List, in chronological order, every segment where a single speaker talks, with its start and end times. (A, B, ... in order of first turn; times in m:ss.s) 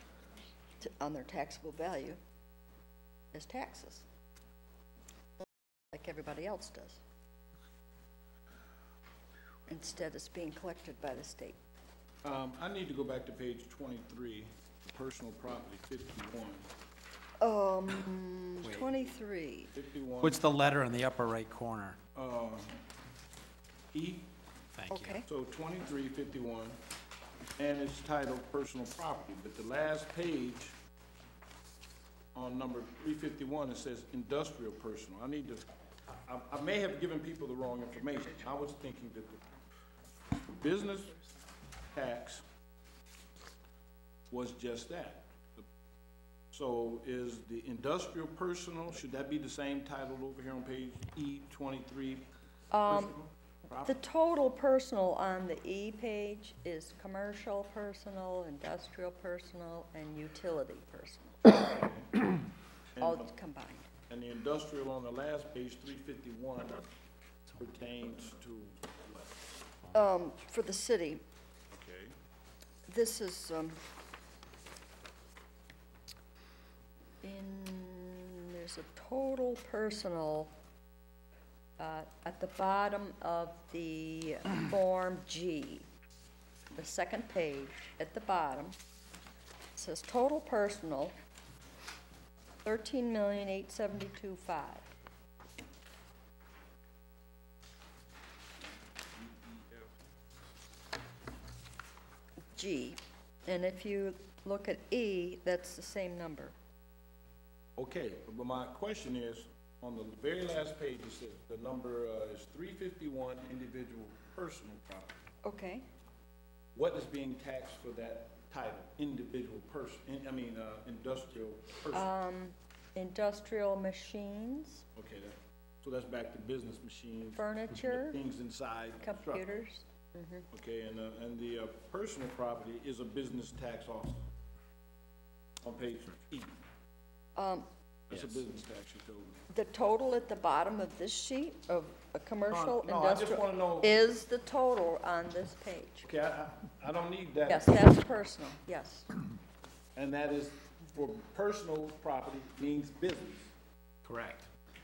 0:00.8-0:02.2 A
0:03.3-0:04.1 A
0:05.9-0:07.0 A
0:09.7-0:11.6 A
0:12.2-0:16.7 B
0:17.4-0:19.7 A
0:19.7-0:20.5 B
0:20.2-0:22.0 C
0:22.1-0:22.8 B
0:23.9-0:24.3 B
0:24.8-0:25.2 C
0:24.9-0:25.2 A
0:25.3-0:26.8 B
0:27.6-0:30.8 B
0:32.3-0:39.4 B
0:40.6-0:41.2 B
0:41.9-0:42.4 B
0:44.3-0:45.7 B
0:46.5-0:52.3 B
0:52.7-0:53.2 A
0:52.8-0:54.0 B
0:53.8-1:01.6 A
1:01.6-1:02.0 B
1:03.0-1:03.3 B
1:03.0-1:03.9 A
1:04.1-1:06.8 B
1:07.6-1:09.4 B
1:09.9-1:11.2 A
1:11.7-1:12.1 B
1:12.9-1:13.8 A
1:17.2-1:20.5 A
1:21.8-1:25.9 A
1:26.7-1:28.8 A
1:29.7-1:31.1 A
1:32.6-1:34.9 A
1:39.1-1:39.9 B
1:42.5-1:46.6 A
1:47.8-1:55.1 B
1:55.4-1:55.8 A
1:56.7-2:02.1 B
2:01.9-2:04.8 A
2:05.0-2:09.5 B
2:07.4-2:08.2 A
2:09.0-2:10.5 A
2:10.5-2:14.2 B
2:15.6-2:16.6 B
2:17.4-2:17.7 A
2:18.1-2:19.4 B
2:19.5-2:26.1 A
2:22.5-2:24.0 B
2:26.0-2:27.9 B
2:27.5-2:29.1 A
2:29.9-2:33.5 B
2:34.0-2:34.5 C